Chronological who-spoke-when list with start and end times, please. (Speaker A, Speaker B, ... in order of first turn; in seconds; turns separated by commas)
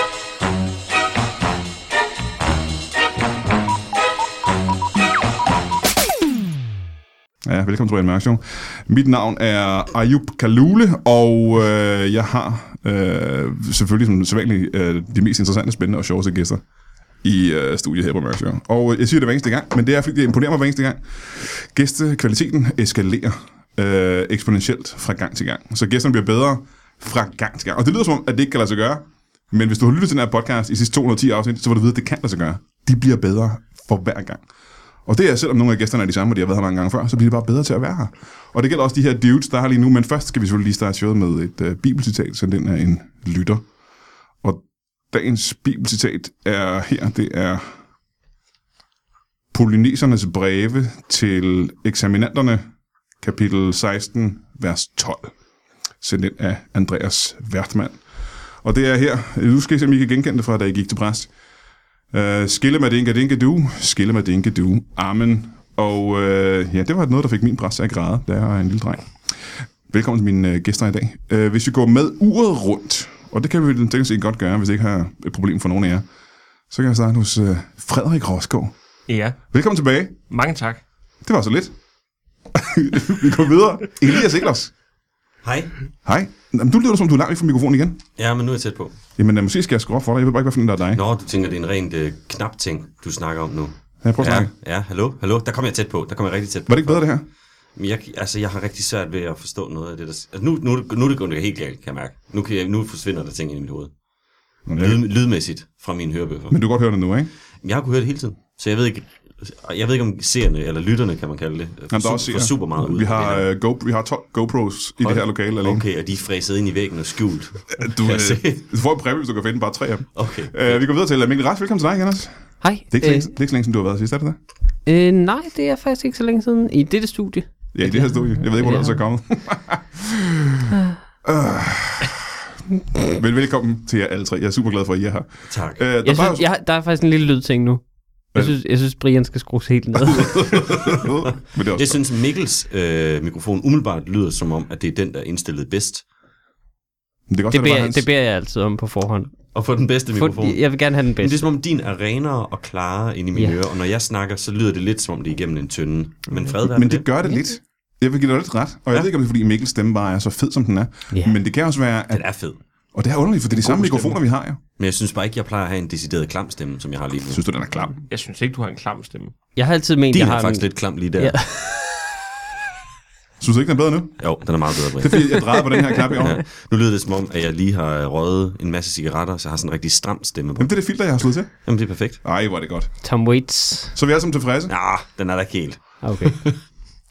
Speaker A: 7.5-16.6, Speaker A: 17.2-34.4, Speaker A: 35.0-43.6, Speaker A: 44.4-47.7, Speaker A: 49.5-52.6, Speaker A: 53.2-55.3, Speaker A: 56.0-58.0, Speaker A: 58.6-61.3, Speaker A: 62.1-69.0, Speaker A: 69.9-76.0, Speaker A: 76.7-78.7, Speaker B: 79.1-79.4, Speaker A: 79.5-80.2, Speaker B: 80.3-80.8, Speaker A: 81.2-81.7, Speaker A: 82.5-84.7, Speaker C: 85.4-85.7, Speaker A: 86.0-88.0, Speaker C: 88.2-88.9, Speaker A: 89.2-91.0, Speaker C: 90.9-97.1, Speaker A: 94.0-94.5, Speaker A: 96.7-97.2, Speaker C: 97.8-103.9, Speaker A: 104.7-105.0, Speaker C: 104.8-106.6, Speaker A: 106.5-107.3, Speaker C: 107.6-113.5, Speaker A: 111.9-115.8, Speaker C: 115.0-118.6, Speaker A: 117.8-124.4, Speaker C: 120.1-120.8, Speaker D: 122.6-123.3, Speaker D: 124.8-129.0, Speaker A: 127.7-130.6, Speaker A: 131.2-132.2, Speaker A: 132.9-136.4, Speaker C: 135.5-135.8, Speaker D: 136.1-140.6, Speaker A: 140.1-142.0, Speaker C: 141.2-146.0, Speaker A: 147.3-148.1, Speaker D: 147.5-149.4, Speaker C: 149.5-150.6, Speaker D: 150.1-151.4, Speaker C: 151.2-157.1, Speaker A: 156.6-162.2, Speaker D: 161.1-161.4, Speaker C: 162.1-162.6, Speaker A: 162.9-164.6, Speaker C: 163.5-164.2, Speaker C: 164.8-167.4, Speaker A: 167.3-167.9, Speaker B: 168.1-169.3, Speaker D: 169.6-170.7, Speaker C: 170.1-171.4, Speaker D: 171.2-172.0, Speaker A: 173.4-174.3, Speaker C: 174.2-175.4, Speaker A: 175.0-176.4, Speaker C: 176.2-180.7, Speaker A: 180.6-181.6, Speaker C: 181.6-182.2, Speaker A: 182.2-182.9, Speaker D: 183.0-183.9, Speaker A: 183.9-184.7, Speaker C: 184.7-186.6, Speaker D: 186.0-186.4